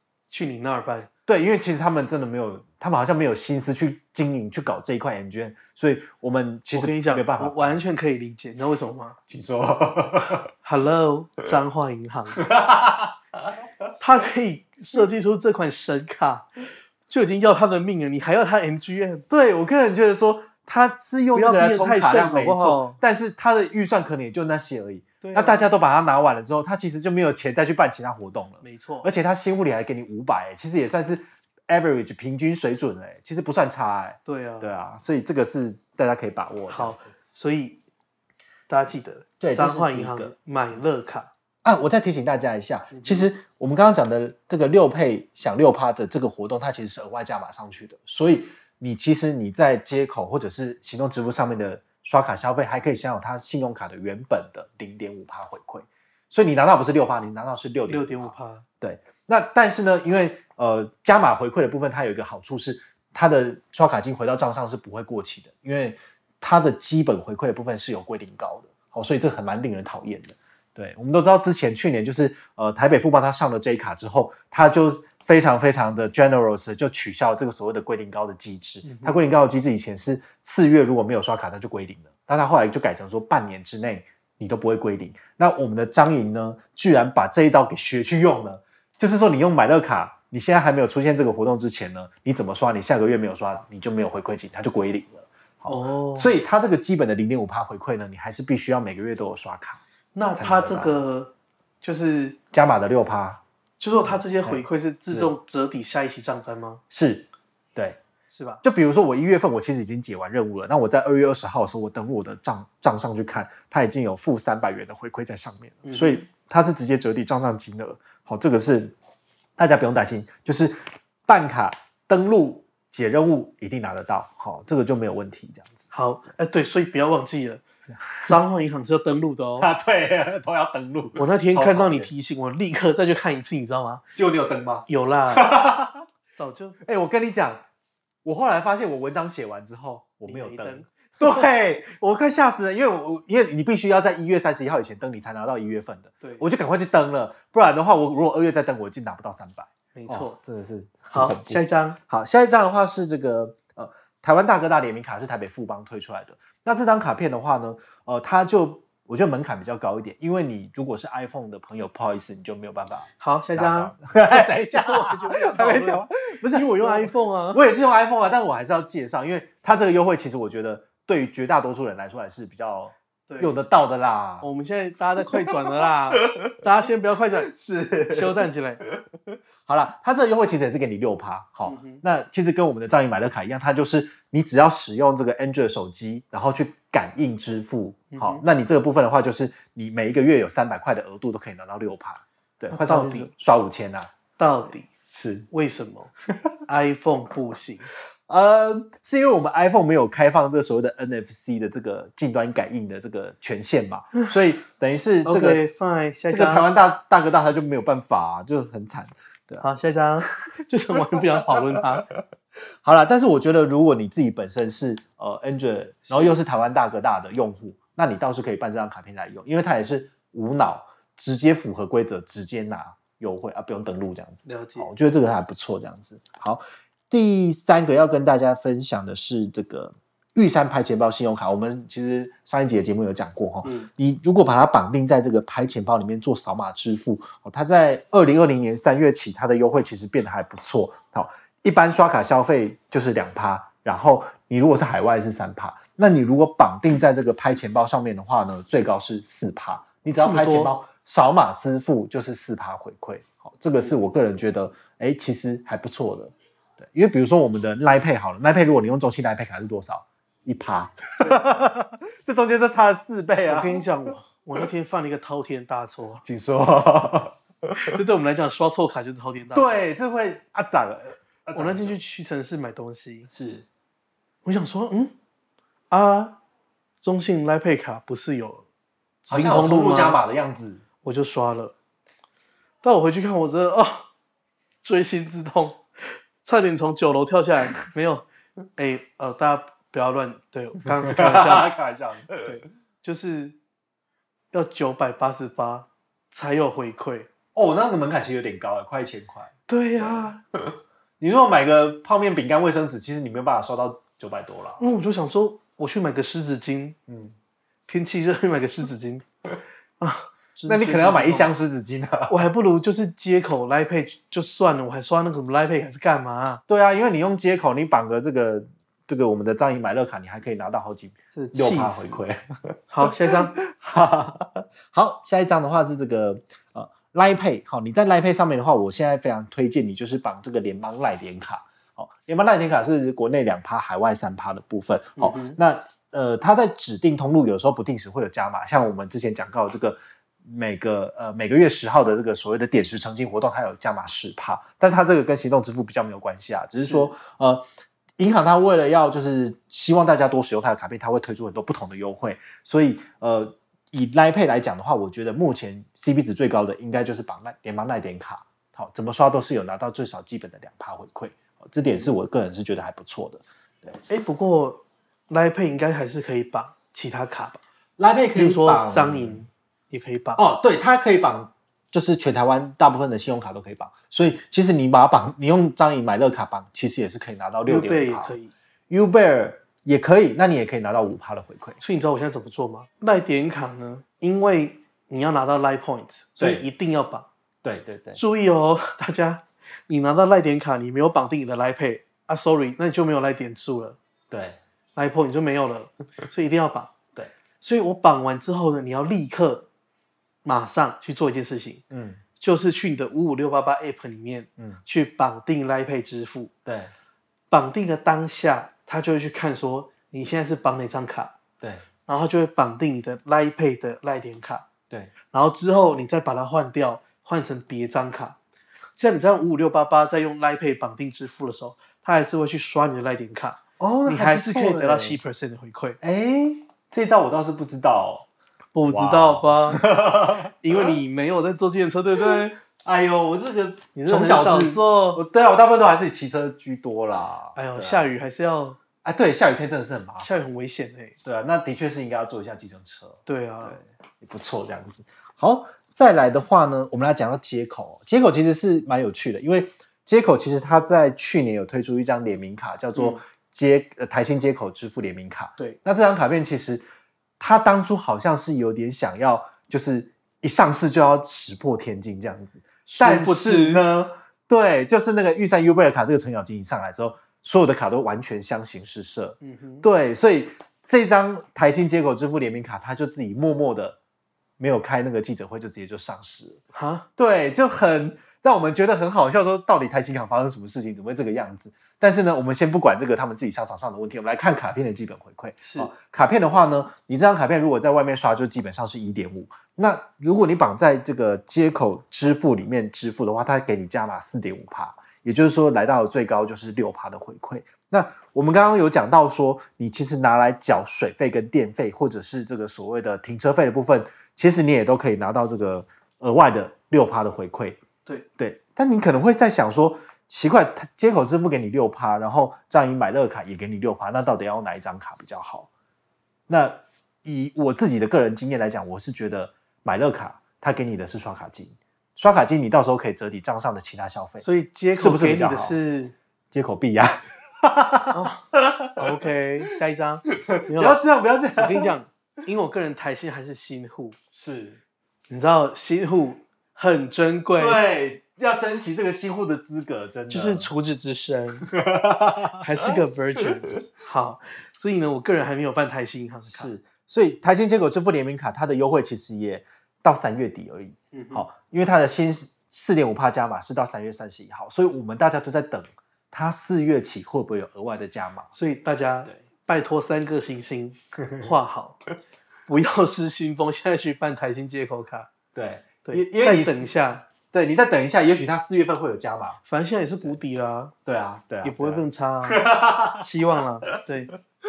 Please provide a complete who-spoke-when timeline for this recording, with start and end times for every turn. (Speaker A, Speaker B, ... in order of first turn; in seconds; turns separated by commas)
Speaker A: 0.3-1.1, Speaker B: 1.3-7.8, Speaker A: 6.7-9.2, Speaker B: 9.3-10.5, Speaker A: 10.6-12.4, Speaker B: 12.3-13.2, Speaker A: 14.0-16.5, Speaker A: 17.1-19.2, Speaker B: 19.3-37.1, Speaker A: 21.3-23.0, Speaker A: 25.2-25.7, Speaker A: 28.6-29.1, Speaker A: 34.3-34.7, Speaker A: 36.7-37.8, Speaker A: 38.7-41.3, Speaker B: 39.4-40.3, Speaker B: 41.6-99.8, Speaker A: 42.9-43.3, Speaker A: 57.9-58.6, Speaker A: 78.8-79.2, Speaker A: 95.7-96.3, Speaker A: 100.2-102.4, Speaker B: 100.4-101.0, Speaker B: 102.5-103.4, Speaker A: 103.8-106.8, Speaker B: 104.0-105.3, Speaker B: 106.9-108.0, Speaker A: 108.3-108.6, Speaker B: 108.6-119.0, Speaker A: 115.8-116.2, Speaker B: 119.6-125.9, Speaker A: 125.9-127.6, Speaker B: 128.1-128.4, Speaker A: 128.2-129.7, Speaker B: 129.6-132.1, Speaker A: 131.2-134.0, Speaker B: 134.2-136.1, Speaker A: 134.9-135.6, Speaker A: 136.4-136.8, Speaker B: 136.8-137.6, Speaker B: 138.2-174.5, Speaker A: 140.3-141.3, Speaker A: 149.9-150.4, Speaker A: 151.1-152.0, Speaker A: 163.2-167.6, Speaker A: 173.3-173.6, Speaker A: 174.4-177.5, Speaker B: 177.4-178.5, Speaker A: 178.1-178.8, Speaker B: 179.6-194.1, Speaker A: 181.7-182.0, Speaker A: 188.1-188.4, Speaker A: 192.7-193.3, Speaker A: 194.4-194.9, Speaker B: 195.1-195.5, Speaker A: 195.5-196.1, Speaker A: 196.7-197.9, Speaker B: 198.3-205.6, Speaker A: 205.2-206.7, Speaker B: 206.3-209.7, Speaker A: 209.6-212.1, Speaker B: 210.2-210.5, Speaker B: 212.8-263.9, Speaker A: 224.5-224.9, Speaker A: 233.6-233.9, Speaker A: 250.2-250.8, Speaker A: 263.4-266.2, Speaker B: 266.2-267.8, Speaker A: 267.8-269.9, Speaker B: 269.5-272.0, Speaker A: 271.5-273.3, Speaker B: 273.3-273.7, Speaker A: 274.4-275.1, Speaker A: 275.9-276.4, Speaker A: 277.0-278.6, Speaker A: 279.3-280.2, Speaker B: 279.3-280.8, Speaker A: 281.0-281.7, Speaker A: 282.8-284.1, Speaker A: 284.8-291.7, Speaker B: 291.0-292.6, Speaker A: 292.4-293.6, Speaker A: 294.5-297.3, Speaker B: 297.6-300.4, Speaker A: 299.7-300.4, Speaker B: 301.2-304.8, Speaker A: 304.8-307.0, Speaker B: 307.1-307.4, Speaker A: 307.9-309.2, Speaker A: 310.0-311.5, Speaker B: 310.7-312.5, Speaker A: 312.3-316.6, Speaker B: 316.7-347.7, Speaker A: 321.3-322.2, Speaker A: 322.9-323.6, Speaker A: 335.2-335.6, Speaker A: 346.8-347.1, Speaker B: 348.2-364.0, Speaker A: 364.1-367.6, Speaker B: 368.0-369.4, Speaker A: 368.3-370.4, Speaker B: 370.4-378.4, Speaker A: 377.6-378.5, Speaker B: 378.9-381.8, Speaker A: 381.8-387.3, Speaker B: 386.4-386.7, Speaker B: 387.6-388.2, Speaker A: 388.1-394.0, Speaker B: 394.3-394.6, Speaker A: 395.0-396.9, Speaker A: 397.6-399.7, Speaker A: 400.4-401.8, Speaker B: 401.9-402.2, Speaker A: 402.4-406.5, Speaker B: 406.7-406.9, Speaker A: 407.5-411.3, Speaker B: 411.6-411.9, Speaker A: 412.1-414.7, Speaker A: 415.3-418.4, Speaker A: 419.0-426.0, Speaker B: 423.8-425.2, Speaker B: 426.0-428.3, Speaker A: 428.8-432.6, Speaker B: 428.9-430.9, Speaker B: 432.6-438.1, Speaker A: 433.9-435.2, Speaker A: 437.6-438.8, Speaker B: 439.0-440.3, Speaker A: 440.2-441.2, Speaker B: 441.2-456.9, Speaker A: 443.3-443.8, Speaker A: 452.9-453.2, Speaker B: 457.4-474.0, Speaker A: 462.9-463.8, Speaker A: 469.4-469.9, Speaker B: 474.6-476.6, Speaker A: 476.7-477.1, Speaker B: 477.2-507.8, Speaker A: 485.6-485.9, Speaker B: 508.4-515.7, Speaker B: 516.5-525.8, Speaker A: 524.4-526.1, Speaker B: 526.5-529.0, Speaker A: 528.1-531.0, Speaker B: 530.3-531.9, Speaker A: 531.6-534.2, Speaker B: 534.3-534.8, Speaker A: 535.3-537.8, Speaker B: 537.6-540.7, Speaker A: 540.3-541.7, Speaker B: 541.6-543.0, Speaker A: 542.6-546.7, Speaker B: 546.5-558.5, Speaker A: 551.1-551.5, Speaker A: 558.5-562.0, Speaker B: 561.2-561.5, Speaker A: 562.7-565.3, Speaker B: 565.5-569.6, Speaker A: 566.0-567.2, Speaker A: 569.6-570.9, Speaker B: 571.1-573.3, Speaker A: 571.6-572.6, Speaker A: 573.2-574.3